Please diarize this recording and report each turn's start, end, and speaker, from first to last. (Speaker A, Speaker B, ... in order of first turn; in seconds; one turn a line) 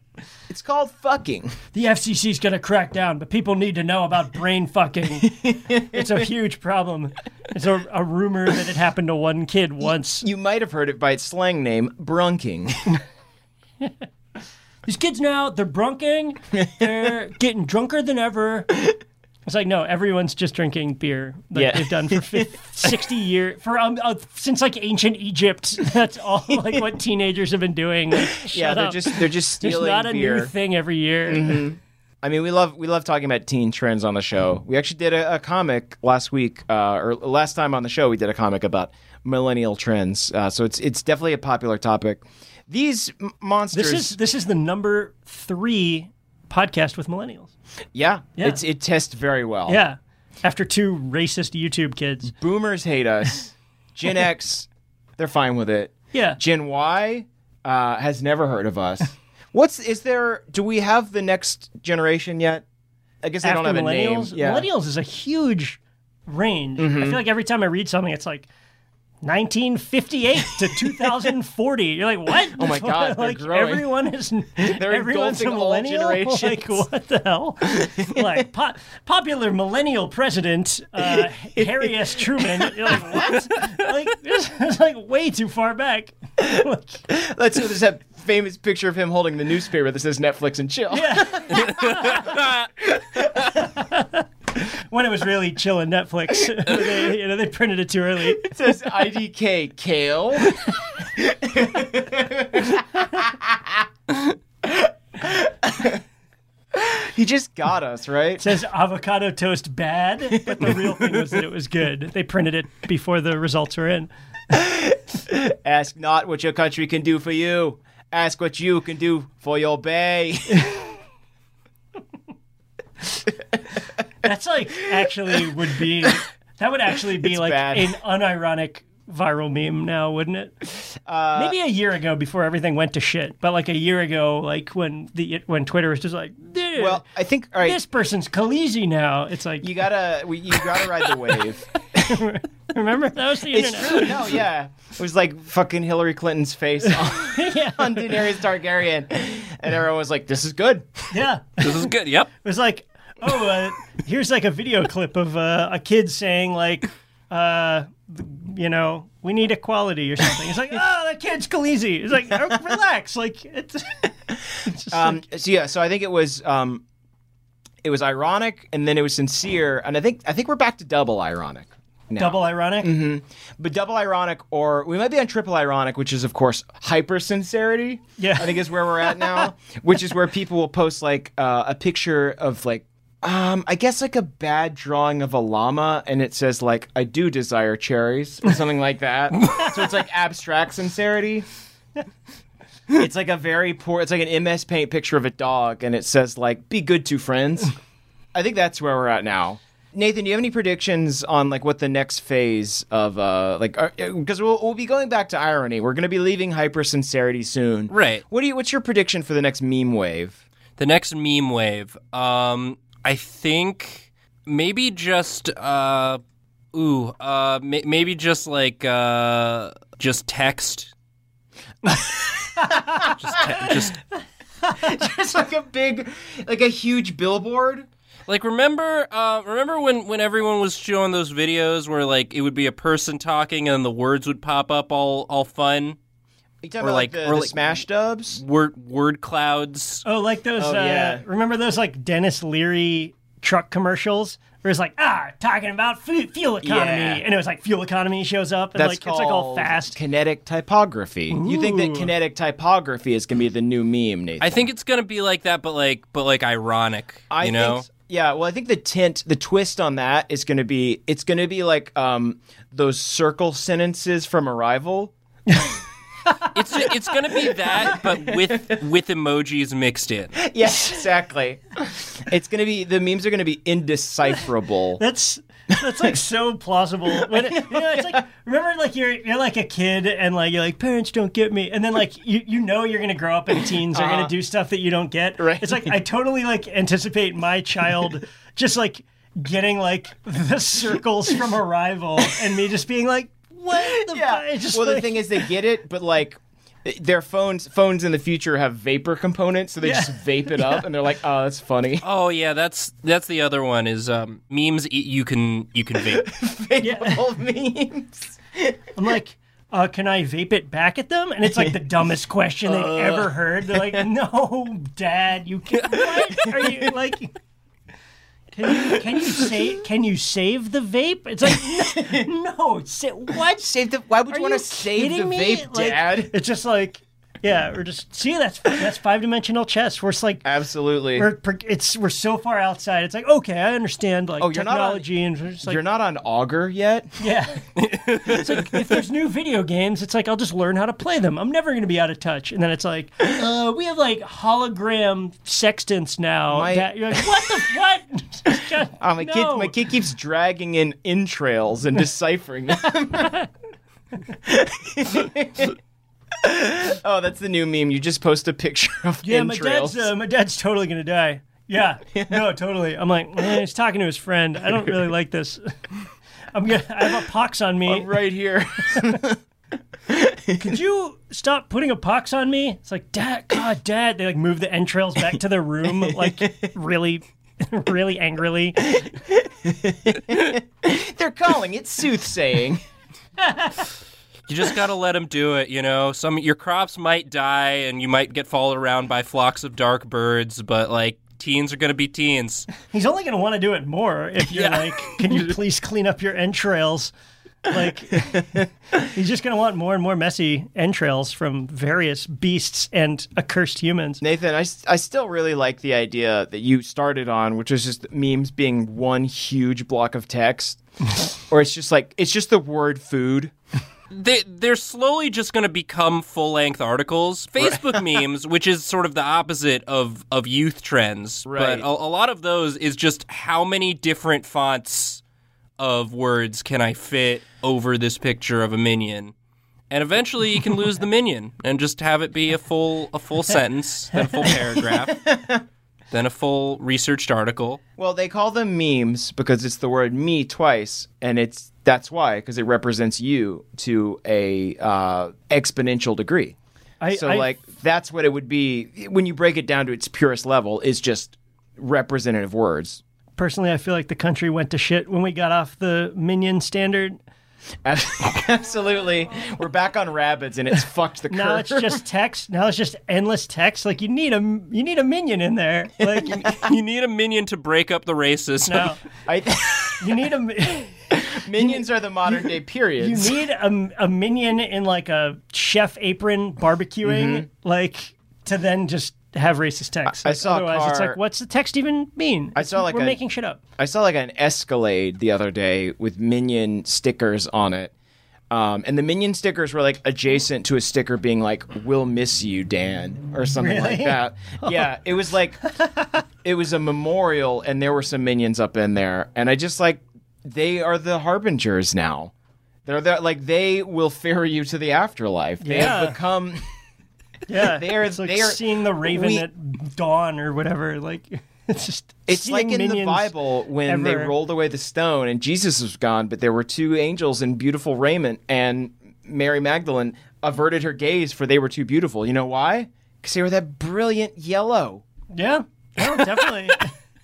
Speaker A: 0.5-1.6
Speaker B: 1.7-10.3
Speaker A: 5.2-6.0
Speaker A: 10.2-12.9
Speaker B: 14.8-18.8
Speaker A: 16.6-16.9
Speaker B: 19.4-31.6
Speaker A: 21.5-22.9
Speaker A: 28.1-30.5
Speaker A: 31.3-44.2
Speaker B: 43.7-47.5
Speaker A: 47.9-49.8
Speaker B: 49.7-52.3
Speaker A: 52.3-62.6
Speaker B: 56.1-56.4
Speaker A: 63.2-64.7
Speaker B: 63.4-68.5
Speaker A: 66.8-67.2
Speaker B: 69.2-87.0
Speaker A: 72.5-73.9
Speaker A: 74.6-76.8
Speaker A: 77.8-78.4
Speaker A: 81.0-83.2
Speaker A: 87.1-92.3
Speaker B: 90.9-92.3
Speaker A: 92.9-93.5
Speaker B: 93.5-94.2
Speaker B: 94.9-98.5
Speaker A: 98.4-103.8
Speaker A: 104.6-106.0
Speaker A: 106.7-108.5
Speaker B: 108.4-114.1
Speaker A: 110.5-111.2
Speaker A: 114.5-120.8
Speaker B: 124.2-130.6
Speaker A: 127.2-128.0
Speaker A: 131.1-131.6
Speaker B: 131.3-137.0
Speaker A: 136.8-137.8
Speaker B: 137.6-139.7
Speaker A: 139.6-142.2
Speaker B: 142.0-144.3
Speaker A: 143.5-151.1
Speaker B: 146.9-148.2
Speaker B: 151.1-151.9
Speaker C: 151.6-152.3
Speaker B: 152.4-164.1
Speaker B: 164.6-165.2
Speaker A: 164.9-166.8
Speaker A: 167.8-191.5
Speaker B: 172.2-172.9
Speaker B: 178.2-178.6
Speaker A: 192.9-197.7
Speaker A: 198.3-210.4
Speaker C: 207.9-208.2
Speaker C: 210.8-216.2
Speaker C: 216.7-220.9
Speaker A: 221.8-223.8
Speaker B: 222.6-223.0
Speaker C: 223.1-224.0
Speaker A: 224.7-227.9
Speaker C: 228.3-236.0
Speaker A: 236.6-238.4
Speaker C: 236.8-237.7
Speaker C: 238.3-240.0
Speaker B: 240.0-250.0
Speaker A: 240.6-241.2
Speaker A: 246.6-247.2
Speaker A: 248.7-254.6
Speaker B: 251.3-252.1
Speaker C: 254.4-257.9
Speaker A: 257.3-265.1
Speaker C: 266.5-270.4
Speaker A: 267.6-268.8
Speaker A: 270.4-275.0
Speaker B: 270.7-271.0
Speaker B: 275.0-295.3
Speaker A: 277.2-278.2
Speaker A: 283.9-284.3
Speaker A: 285.4-285.9
Speaker A: 293.7-302.0
Speaker B: 299.8-300.8
Speaker C: 302.0-306.3
Speaker A: 306.1-308.8
Speaker B: 306.8-307.2
Speaker B: 308.9-317.3
Speaker A: 312.6-314.0
Speaker A: 316.4-316.8
Speaker B: 318.5-323.7
Speaker A: 321.7-322.2
Speaker A: 323.3-326.3
Speaker B: 324.3-330.4
Speaker A: 330.4-331.3
Speaker B: 331.1-335.8
Speaker A: 334.4-335.1
Speaker A: 335.6-337.1
Speaker B: 337.2-337.7
Speaker C: 337.8-338.6
Speaker B: 338.2-349.7
Speaker A: 346.5-347.5
Speaker A: 349.0-353.3
Speaker B: 353.2-353.4
Speaker A: 354.4-355.7
Speaker A: 356.4-360.1
Speaker B: 359.2-365.8
Speaker B: 366.5-368.1
Speaker A: 367.9-369.4
Speaker A: 370.1-370.7
Speaker B: 370.6-379.1
Speaker A: 376.0-376.7
Speaker A: 379.1-382.8
Speaker B: 383.4-383.9
Speaker C: 384.5-392.7
Speaker B: 392.9-397.1
Speaker C: 394.5-395.3
Speaker B: 397.6-404.2
Speaker A: 398.3-398.6
Speaker A: 404.2-410.8
Speaker A: 411.5-413.5
Speaker C: 414.1-425.2
Speaker A: 417.6-418.2
Speaker A: 421.4-421.9
Speaker C: 425.8-429.3
Speaker C: 429.9-435.2
Speaker A: 434.9-435.6
Speaker C: 436.1-437.8
Speaker A: 438.0-446.6
Speaker B: 447.0-447.5
Speaker A: 447.1-453.0
Speaker B: 453.4-457.2
Speaker A: 457.8-462.0
Speaker B: 461.3-466.4
Speaker C: 466.3-468.9
Speaker B: 468.6-469.0
Speaker A: 469.2-470.2
Speaker B: 470.0-471.0
Speaker A: 471.1-473.4
Speaker B: 471.6-483.6
Speaker A: 477.0-477.5
Speaker A: 480.1-481.2
Speaker A: 482.5-483.2
Speaker A: 483.8-487.9
Speaker A: 488.5-495.6
Speaker B: 493.6-494.8
Speaker B: 495.7-496.2
Speaker A: 496.4-502.3
Speaker A: 502.9-506.7
Speaker B: 505.6-506.2
Speaker B: 507.5-513.3
Speaker A: 507.6-509.4
Speaker A: 512.3-525.0
Speaker B: 513.9-514.3
Speaker B: 525.3-526.9